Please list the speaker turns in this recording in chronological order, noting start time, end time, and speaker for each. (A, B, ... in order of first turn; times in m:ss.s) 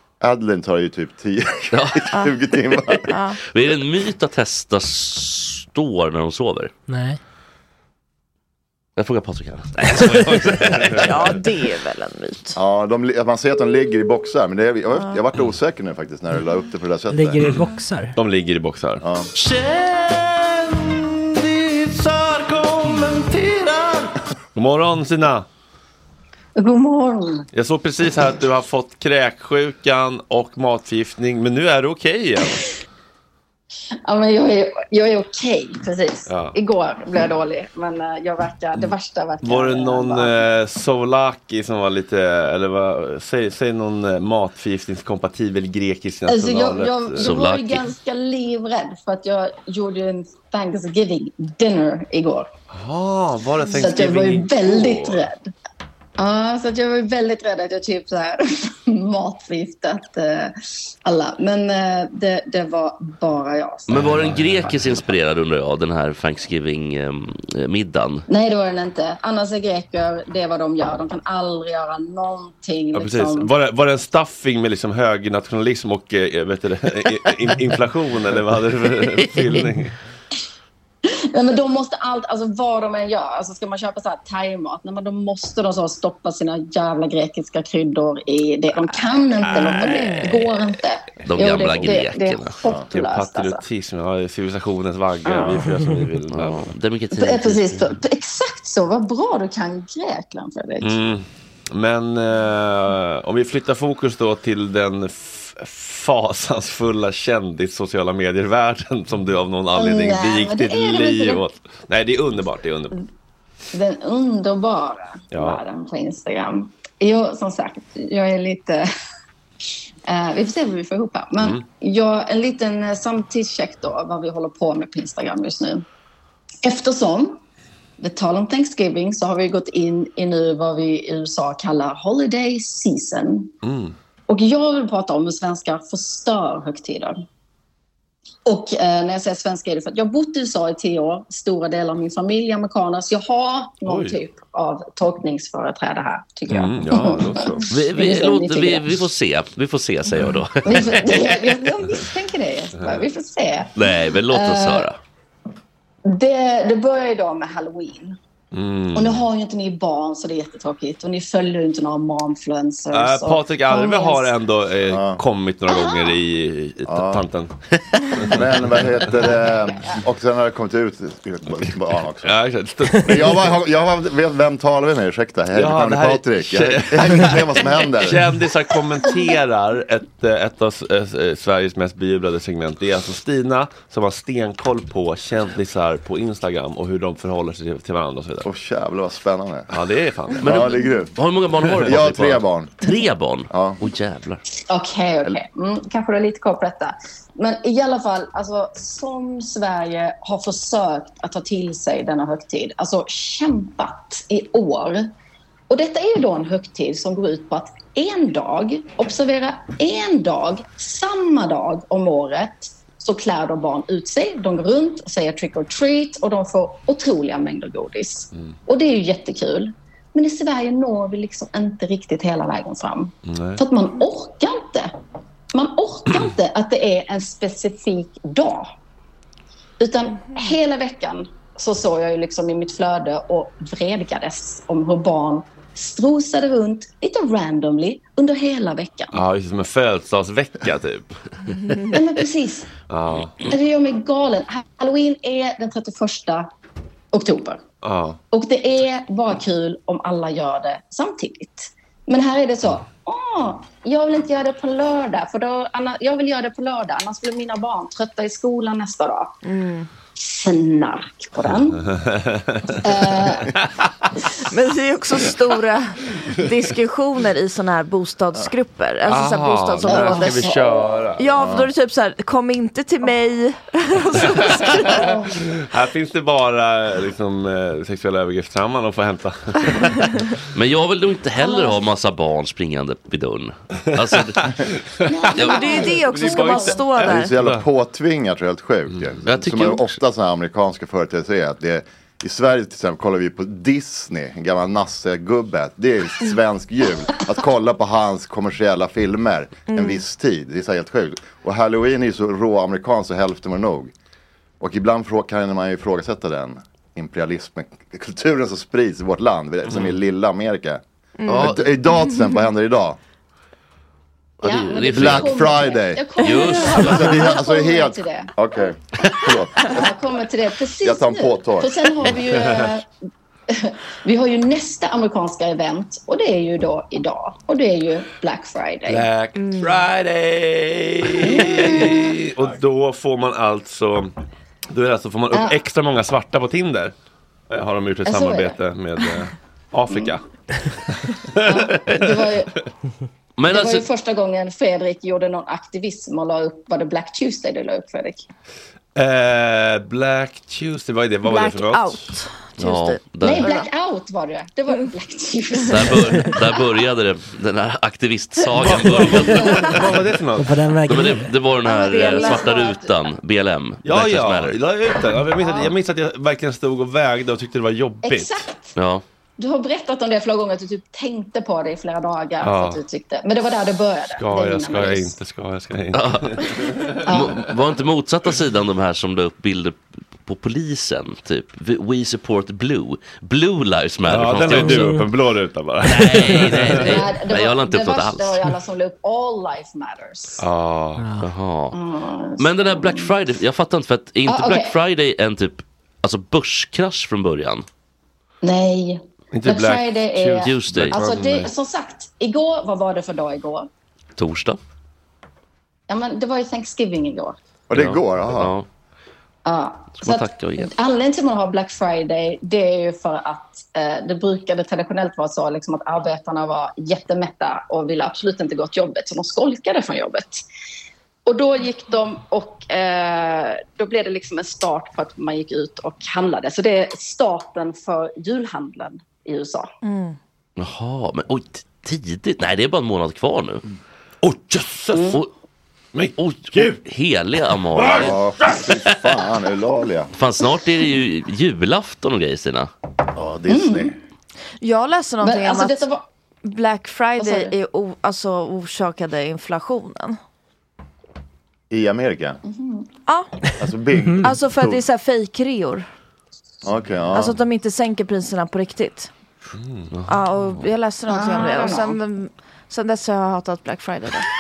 0:00.2-0:03.1 A
0:01.7-0:02.2 B
0:02.1-0:02.4 C
0:02.9-0:06.7 B
0:03.1-0:03.4 C
0:06.9-0:07.2 D
0:09.0-0:11.2 B
0:10.1-0:11.3 E
0:11.0-0:12.6 C
0:12.6-0:17.5 A
0:14.9-0:15.2 C
0:17.1-0:18.2 D
0:18.2-0:25.5 E
0:19.0-0:19.3 A
0:26.6-0:27.5 F
0:27.5-0:32.6 E
0:34.0-0:40.4 F
0:36.3-0:36.6 E
0:38.7-0:47.4 E
0:46.3-0:52.5 F
0:47.2-0:47.9 B
0:52.7-0:55.3 E
0:53.7-0:55.5 F
0:56.2-1:04.1 F
1:03.9-1:08.2 B
1:03.9-1:05.0 E
1:08.3-1:13.5 F
1:12.9-1:20.0 E
1:21.0-1:33.6 F
1:29.4-1:30.7 E
1:31.3-1:32.6 B
1:32.9-1:36.7 E
1:35.2-1:35.6 F
1:36.3-1:37.9 B
1:37.1-1:41.0 F
1:40.8-1:53.0 E
1:49.7-1:51.5 F
1:53.7-1:58.9 F
1:55.3-1:55.6 E
2:00.1-2:05.8 F
2:01.4-2:01.6 E
2:06.6-2:07.4 F
2:08.0-2:13.5 F
2:13.6-2:14.0 E
2:14.3-2:17.2 F
2:18.5-2:29.0 F
2:23.8-2:24.2 E
2:26.5-2:27.7 E
2:27.7-2:31.2 B
2:30.2-2:31.3 E
2:30.6-2:34.9 F
2:32.8-2:33.0 E
2:33.8-2:35.0 B
2:36.0-2:38.2 F
2:38.5-2:39.2 E
2:39.0-2:44.3 F
2:42.9-2:47.5 E
2:44.9-2:45.2 A
2:45.7-2:46.2 F
2:46.9-2:47.2 A
2:48.1-2:49.1 E
2:48.2-2:52.4 A
2:52.2-2:53.6 E
2:53.0-2:58.3 A
2:55.5-3:08.5 E
3:08.4-3:09.8 A
3:09.7-3:10.7 E
3:10.4-3:11.1 A
3:10.4-3:14.4 B
3:11.8-3:12.8 A
3:13.5-3:13.8 A
3:14.7-3:25.1 F
3:25.7-3:44.9 F
3:43.2-3:43.6 E
3:45.5-3:48.7 F
3:49.8-3:59.2 F
3:59.1-4:01.2 E
4:01.9-4:02.7 F
4:02.9-4:03.5 E
4:03.5-4:06.5 F
4:07.1-4:07.6 F
4:07.8-4:08.2 E
4:08.3-4:19.4 F
4:19.4-4:19.9 C
4:20.2-4:21.8 F
4:21.8-4:23.9 E
4:22.8-4:23.5 F
4:24.5-4:30.5 C
4:29.0-4:31.4 E
4:29.8-4:31.0 F
4:31.2-4:35.0 C
4:31.4-4:31.7 A
4:34.3-4:40.1 E
4:34.9-4:35.3 F
4:40.5-4:44.6 B
4:43.9-4:47.7 E
4:45.1-4:46.9 F
4:45.4-4:45.8 B
4:45.4-4:47.4 C
4:47.0-5:03.9 A
4:49.3-4:50.0 B
4:59.7-5:00.0 C
5:04.6-5:13.0 A
5:09.7-5:09.9 E
5:11.2-5:12.4 C
5:11.3-5:11.6 B
5:14.4-5:17.3 B
5:14.4-5:18.3 F
5:14.9-5:19.9 A
5:19.6-5:22.9 F
5:20.8-5:21.8 A
5:22.1-5:22.7 E
5:23.5-5:29.1 F
5:28.9-5:34.1 E
5:29.4-5:29.8 C
5:31.3-5:32.0 F
5:34.7-5:36.9 E
5:35.3-5:35.6 F
5:37.5-5:42.7 E
5:38.0-5:38.6 F
5:39.9-5:40.2 F
5:41.4-5:42.5 F
5:43.4-5:43.9 B
5:43.5-5:48.2 F
5:49.0-5:52.0 E
5:51.3-5:53.7 C
5:52.6-5:53.6 B
5:53.2-5:56.6 F
5:55.7-5:59.8 B
5:58.5-6:00.6 E
6:00.4-6:01.3 D
6:00.9-6:04.6 B
6:01.7-6:02.8 C
6:01.7-6:03.0 F
6:03.8-6:08.5 E
6:05.4-6:05.8 F
6:08.0-6:08.7 F
6:08.8-6:09.0 B
6:09.4-6:15.2 F
6:12.4-6:12.8 E
6:14.2-6:17.3 E
6:15.9-6:16.6 B
6:17.1-6:17.4 F
6:17.1-6:25.0 B
6:24.1-6:27.1 E
6:24.6-6:25.0 D
6:25.8-6:28.5 B
6:26.8-6:30.4 F
6:30.4-6:31.1 E
6:31.0-6:31.3 D
6:31.2-6:31.8 B
6:31.7-6:33.2 F
6:32.4-6:37.6 B
6:34.3-6:34.8 F
6:38.4-6:43.7 F
6:39.3-6:41.5 E
6:40.4-6:41.0 B
6:44.2-6:44.6 B
6:45.9-6:47.4 F
6:47.7-6:48.6 A
6:47.7-6:48.7 B
6:49.4-7:00.4 F
6:50.0-6:50.7 B
7:01.3-7:09.7 F
7:09.8-7:10.2 C
7:10.6-7:13.6 B
7:14.2-7:15.2 E
7:15.9-7:16.8 E
7:16.2-7:18.2 B
7:17.8-7:18.7 E
7:18.0-7:20.1 A
7:20.1-7:22.7 B
7:23.1-7:23.9 A
7:23.5-7:24.0 F
7:24.6-7:25.9 C
7:25.2-7:26.0 F
7:26.4-7:30.2 C
7:27.2-7:27.5 F
7:31.7-7:32.4 A
7:32.4-7:32.9 F
7:33.1-7:33.4 C
7:33.6-7:34.8 A
7:34.2-7:35.9 C
7:36.6-7:37.4 A
7:37.1-7:39.1 C
7:39.5-7:39.9 E
7:39.9-7:40.2 B
7:40.1-7:44.3 C
7:41.1-7:42.0 F